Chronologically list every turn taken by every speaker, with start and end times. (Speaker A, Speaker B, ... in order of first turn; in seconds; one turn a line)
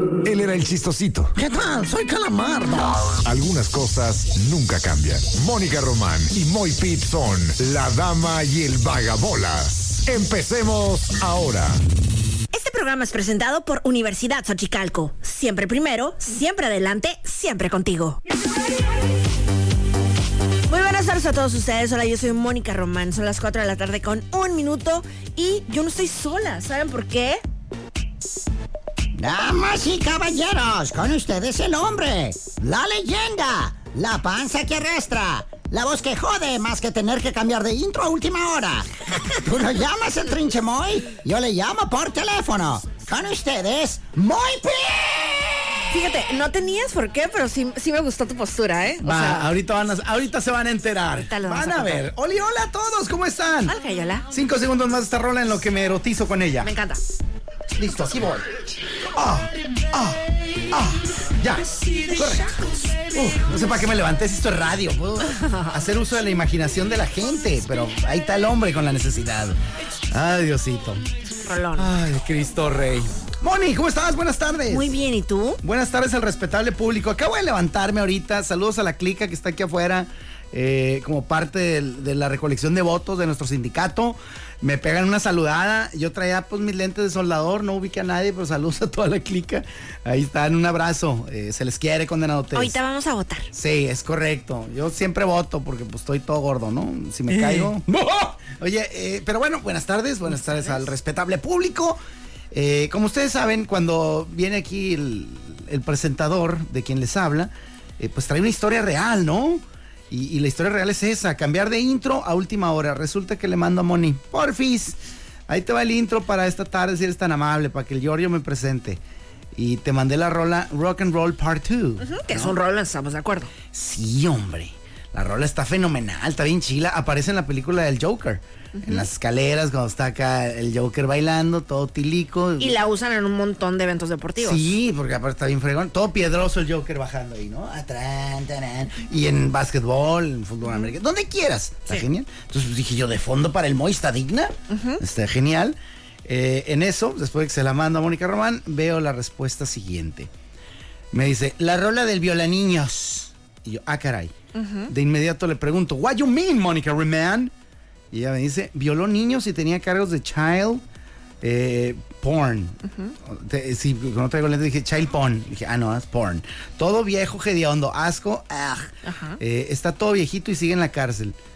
Speaker A: 0.2-1.4
Speaker B: 1.4-3.0
Speaker A: 3.1-11.8
Speaker C: 12.5-18.2
Speaker C: 20.7-27.4
Speaker B: 29.2-45.6
Speaker C: 45.9-49.5
Speaker D: 49.0-53.8
Speaker C: 51.1-52.1
Speaker C: 53.6-54.3
Speaker D: 54.3-56.7
Speaker C: 56.6-57.0
Speaker D: 57.8-58.5
Speaker D: 59.1-69.6
Speaker C: 62.0-62.5
Speaker C: 65.3-65.7
Speaker D: 70.1-71.1
Speaker C: 71.4-71.9
Speaker D: 71.8-75.0
Speaker C: 74.7-75.6
Speaker D: 75.6-92.8
Speaker C: 92.5-93.5
Speaker D: 93.5-102.0
Speaker C: 100.3-100.9
Speaker D: 102.5-119.0
Speaker D: 119.5-122.6
Speaker C: 122.0-123.5
Speaker D: 123.7-132.8
Speaker C: 128.7-129.1
Speaker C: 132.6-134.7
Speaker D: 134.4-150.3
Speaker C: 140.6-140.9
Speaker C: 144.7-145.0
Speaker D: 151.1-154.3
Speaker C: 154.5-154.9
Speaker D: 154.9-157.5
Speaker D: 158.1-160.8
Speaker D: 161.4-171.4
Speaker C: 162.9-163.2
Speaker C: 169.0-169.4